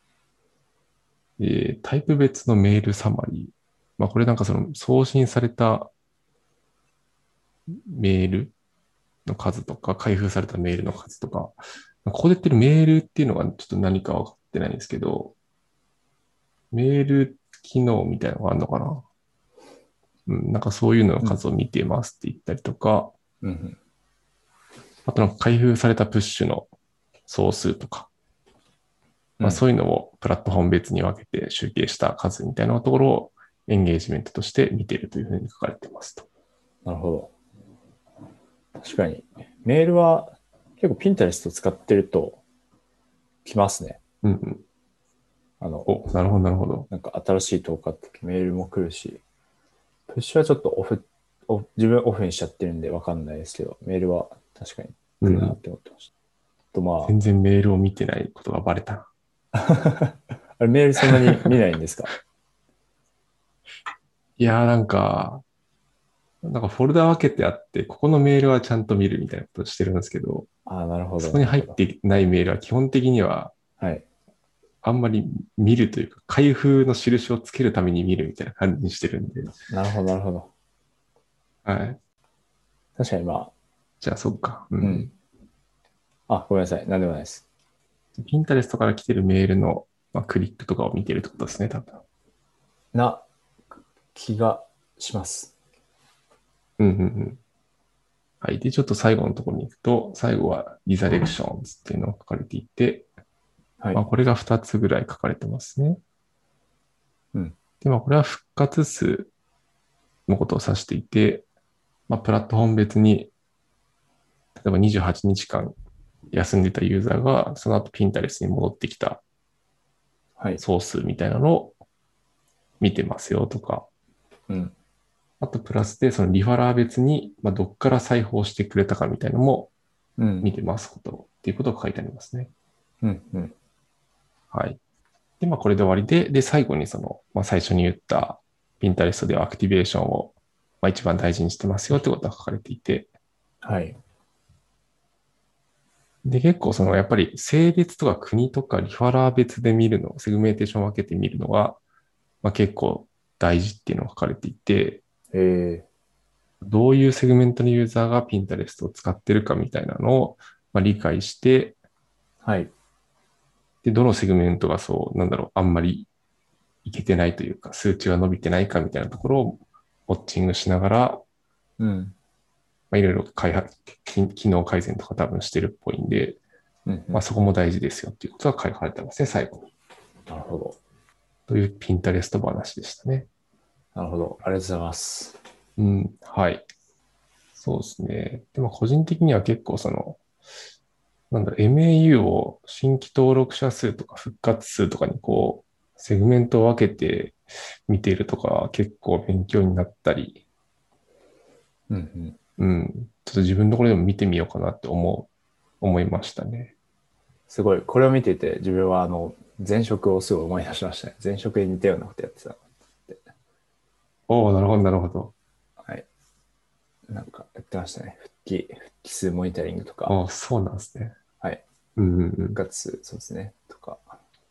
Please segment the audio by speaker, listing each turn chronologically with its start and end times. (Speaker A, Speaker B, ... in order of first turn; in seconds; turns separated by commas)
Speaker A: 1.4-5.9, Speaker A: 7.7-8.5, Speaker A: 9.3-15.3, Speaker A: 16.7-19.0, Speaker A: 20.3-23.1, Speaker B: 23.4-23.8, Speaker A: 25.1-26.7, Speaker A: 27.3-28.1, Speaker A: 29.4-36.3, Speaker B: 36.9-37.3, Speaker B: 38.8-42.4, Speaker B: 43.5-44.0, Speaker A: 44.2-44.6, Speaker B: 45.6-46.0, Speaker A: 45.9-46.9, Speaker B: 46.9-49.2, Speaker B: 50.1-56.1, Speaker A: 55.2-55.6, Speaker B: 56.7-57.1, Speaker A: 57.1-59.1, Speaker B: 59.5-62.1, Speaker A: 64.4-65.4, Speaker A: 66.4-70.5, Speaker B: 70.7-71.8, Speaker A: 71.2-73.5, Speaker B: 73.8-74.0, Speaker A: 74.8-79.5, Speaker B: 79.7-80.5, Speaker A: 81.7-82.0, Speaker B: 83.0-83.5, Speaker A: 84.0-85.1, Speaker B: 84.8-85.1, Speaker B: 86.3-87.5, Speaker A: 88.2-92.0, Speaker B: 92.9-93.2, Speaker B: 94.1-95.5, Speaker A: 96.8-97.4, Speaker A: 98.4-103.1, Speaker A: 103.9-106.0, Speaker A: 107.8-109.3, Speaker A: 110.3-111.5, Speaker A: 112.1-113.3, Speaker A: 114.6-115.8, Speaker A: 116.3-119.2, Speaker A: 120.6-121.8, Speaker A: 122.8-123.9, Speaker B: 124.5-124.7, Speaker A: 125.4-129.7, Speaker B: 130.2-130.5, Speaker A: 130.4-132.5, Speaker B: 133.0-133.6, Speaker A: 134.5-134.8, Speaker A: 135.4-143.1, Speaker B: 143.6-144.0, Speaker A: 146.2-151.8, Speaker A: 152.4-155.0, Speaker B: 155.3-155.9, Speaker A: 156.6-161.8, Speaker B: 162.4-162.7, Speaker A: 163.8-166.1, Speaker A: 166.8-171.2, Speaker B: 171.8-172.2, Speaker A: 172.9-176.4, Speaker B: 176.9-177.2, Speaker A: 177.1-179.7, Speaker B: 180.3-180.8, Speaker A: 181.5-183.3, Speaker B: 183.9-185.4, Speaker A: 185.8-186.7, Speaker A: 187.6-190.2, Speaker A: 191.3-200.4, Speaker B: 201.9-202.4, Speaker A: 202.6-205.3, Speaker A: 205.8-206.7, Speaker B: 207.5-213.2, Speaker A: 214.3-215.3, Speaker B: 217.1-220.2, Speaker A: 220.1-221.2, Speaker A: 222.0-222.6, Speaker B: 222.5-224.2